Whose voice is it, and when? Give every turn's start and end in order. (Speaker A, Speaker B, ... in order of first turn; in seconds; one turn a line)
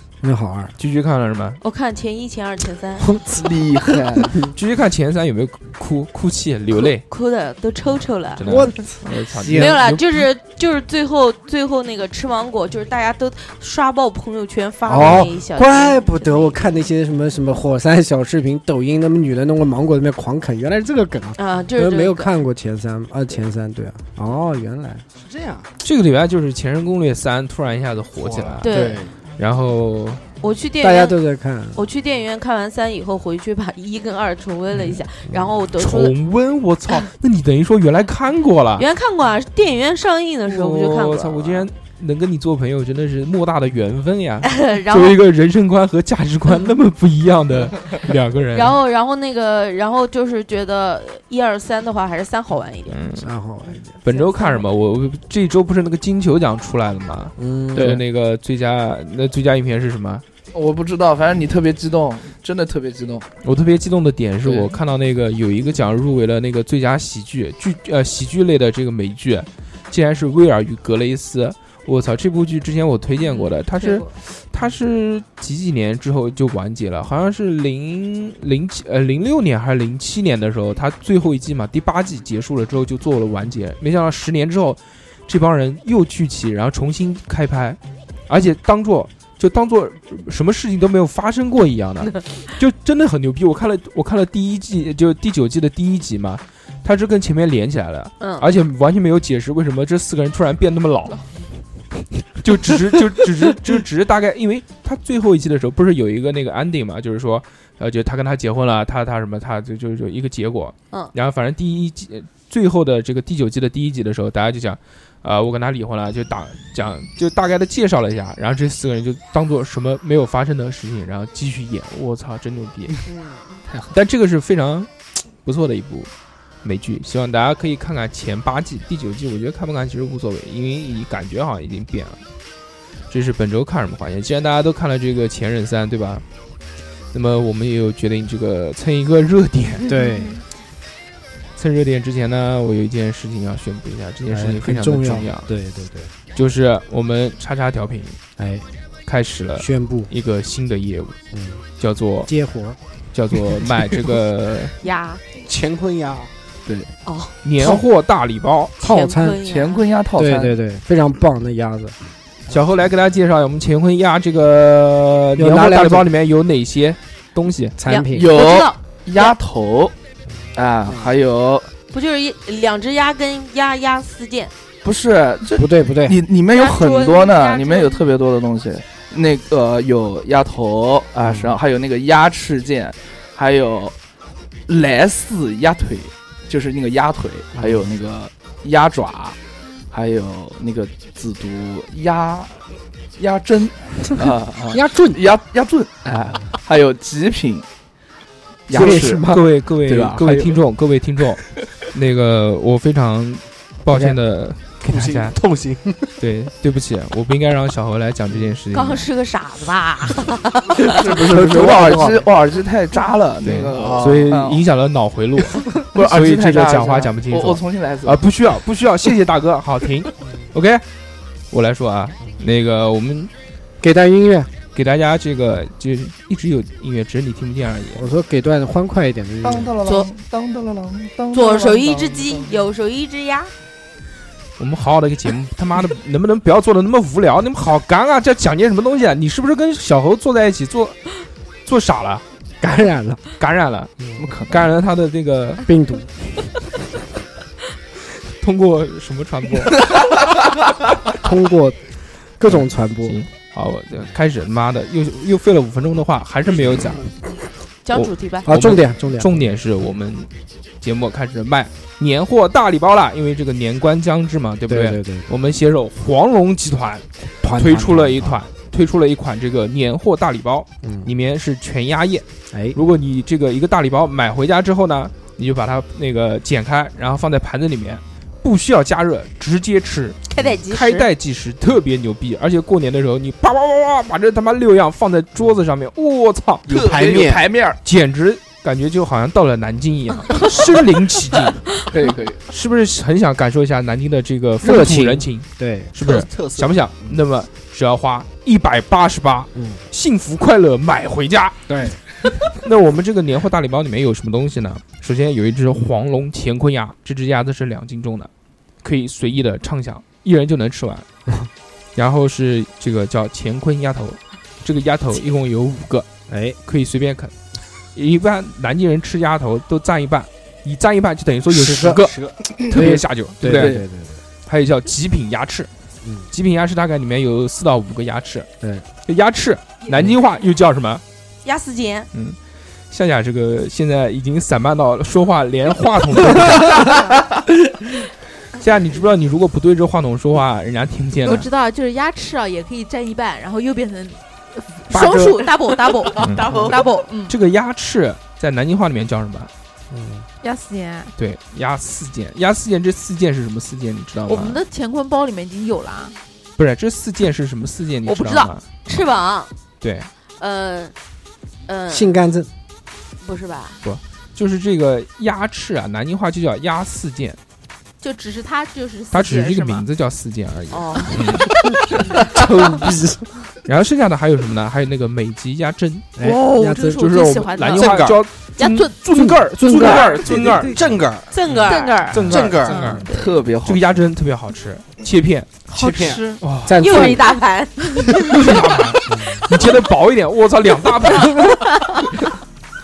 Speaker A: 0.2-0.7
Speaker B: 0.8-1.6
Speaker C: 1.6-3.1
Speaker A: 3.0-3.5
Speaker D: 3.3-4.4
Speaker B: 4.5-7.0
Speaker C: 7.0-8.6
Speaker B: 8.3-10.0
Speaker A: 8.4-9.8
Speaker C: 9.5-16.7
Speaker A: 14.8-25.0
Speaker B: 14.9-15.2
Speaker C: 21.4-22.3
Speaker E: 25.2-25.7
Speaker B: 25.8-28.7
Speaker E: 28.2-29.1
Speaker C: 28.6-29.1
Speaker B: 29.4-30.2
Speaker C: 30.4-31.2
Speaker A: 30.8-31.8
Speaker C: 31.7-36.1
Speaker B: 35.8-38.9
Speaker C: 38.8-41.7
Speaker B: 40.4-48.8
Speaker C: 44.4-45.2
Speaker C: 48.5-53.0
Speaker B: 52.9-53.3
Speaker A: 53.2-53.9
Speaker B: 54.0-60.2
Speaker C: 54.0-54.7
Speaker A: 57.4-58.0
Speaker D: 57.7-58.0
Speaker D: 60.5-63.3
Speaker B: 63.4-101.3
Speaker D: 64.4-64.7
Speaker F: 73.7-74.1
Speaker C: 98.2-98.5
Speaker B: 102.3-123.0
Speaker C: 123.0-123.6
Speaker B: 123.9-126.1
Speaker B: 126.6-132.2
Speaker B: 133.1-136.2
Speaker B: 137.1-139.9
Speaker C: 139.8-140.4
Speaker A: 139.8-140.4
Speaker B: 141.6-145.5
Speaker A: 144.3-146.1
Speaker B: 146.3-148.2
Speaker A: 148.4-148.6
Speaker B: 149.1-151.2
Speaker A: 149.6-150.1
Speaker A: 151.3-151.6
Speaker B: 151.8-152.3
Speaker A: 152.2-152.8
Speaker B: 153.1-154.7
Speaker C: 154.8-155.2
Speaker E: 155.4-156.3
Speaker C: 157.0-157.3
Speaker B: 157.4-158.8
Speaker A: 158.8-159.4
Speaker C: 158.8-159.8
Speaker D: 159.4-160.6
Speaker A: 160.2-161.9
Speaker B: 162.5-167.8
Speaker A: 165.4-166.1
Speaker A: 167.8-168.3
Speaker C: 167.8-169.3
Speaker D: 168.1-169.9
Speaker D: 170.5-171.7
Speaker C: 171.9-174.5
Speaker D: 174.8-183.9
Speaker A: 175.5-176.2
Speaker C: 176.5-178.0
Speaker A: 181.2-181.6
Speaker D: 184.7-189.4
Speaker A: 187.6-187.9
Speaker D: 189.9-192.6
Speaker D: 193.2-197.7
Speaker A: 194.7-195.2
Speaker D: 198.7-199.3
Speaker A: 198.7-199.5
Speaker B: 198.7-205.3
Speaker D: 199.8-200.6
Speaker E: 204.8-206.1
Speaker B: 206.2-209.1
Speaker C: 208.7-210.9
Speaker D: 210.8-214.6
Speaker A: 211.2-212.2
Speaker B: 213.4-220.8
Speaker E: 213.7-214.3
Speaker D: 215.7-218.2
Speaker B: 221.5-223.3
Speaker A: 223.8-224.5
Speaker B: 224.7-228.1
Speaker A: 227.9-229.7
Speaker D: 229.4-232.5
Speaker C: 229.8-230.1
Speaker C: 231.3-233.5
Speaker B: 234.6-241.0
Speaker B: 241.6-242.2
Speaker A: 242.6-243.2
Speaker B: 243.4-243.9
Speaker D: 244.2-244.7
Speaker B: 244.5-245.6
Speaker A: 245.6-246.5
Speaker B: 248.3-249.8
Speaker A: 251.2-251.8
Speaker A: 252.4-253.2
Speaker B: 252.5-257.1
Speaker C: 257.8-258.5
Speaker B: 257.9-260.3
Speaker A: 258.4-259.5
Speaker B: 260.8-286.7
Speaker A: 264.7-265.3
Speaker A: 267.4-268.4
Speaker A: 270.8-271.1
Speaker A: 272.5-272.8
Speaker C: 280.3-281.1
Speaker E: 286.6-287.4
Speaker D: 286.7-287.8
Speaker B: 287.8-291.7
Speaker D: 291.9-292.4
Speaker B: 292.5-301.6
Speaker A: 294.6-295.9
Speaker E: 296.0-297.2
Speaker A: 299.5-299.8
Speaker A: 301.7-302.0
Speaker B: 302.5-308.3
Speaker B: 308.8-311.1
Speaker B: 311.9-316.1
Speaker A: 316.3-316.6
Speaker B: 316.6-317.3
Speaker B: 317.9-322.1
Speaker A: 321.5-322.1
Speaker E: 321.8-322.4
Speaker B: 322.7-323.8
Speaker A: 322.7-324.2
Speaker D: 323.5-323.8
Speaker B: 324.4-325.7
Speaker A: 326.0-326.3
Speaker B: 326.3-328.5
Speaker A: 328.6-328.8
Speaker B: 329.1-331.0
Speaker C: 331.4-332.1
Speaker B: 332.1-332.4
Speaker B: 332.9-337.1
Speaker B: 338.5-341.5
Speaker F: 341.2-347.3
Speaker B: 344.9-345.4
Speaker C: 346.1-346.8
Speaker B: 346.2-346.5
Speaker B: 347.3-349.5
Speaker A: 349.9-350.2
Speaker F: 350.4-351.1
Speaker B: 351.1-354.6
Speaker F: 354.2-356.1
Speaker B: 356.6-359.0
Speaker F: 358.1-358.5
Speaker C: 358.8-359.5
Speaker B: 359.8-360.1
Speaker C: 360.4-360.9
Speaker C: 361.7-362.1
Speaker A: 361.9-362.5
Speaker C: 363.2-363.8
Speaker B: 363.8-367.4
Speaker F: 368.0-369.8
Speaker B: 369.1-371.5
Speaker C: 370.7-371.3
Speaker A: 372.3-373.2
Speaker B: 373.6-376.2
Speaker A: 376.2-377.0
Speaker F: 376.2-378.9
Speaker B: 377.0-380.8
Speaker E: 377.7-378.2
Speaker A: 379.1-380.1
Speaker F: 379.8-380.8
Speaker E: 380.2-381.3
Speaker C: 381.3-382.1
Speaker B: 381.5-383.1
Speaker F: 381.6-383.4
Speaker E: 382.2-382.9
Speaker D: 383.1-383.8
Speaker B: 383.6-385.6
Speaker F: 385.7-386.4
Speaker E: 385.7-386.2
Speaker B: 386.4-387.1
Speaker A: 386.6-387.3
Speaker C: 386.8-388.6
Speaker B: 388.3-391.5
Speaker A: 389.1-389.5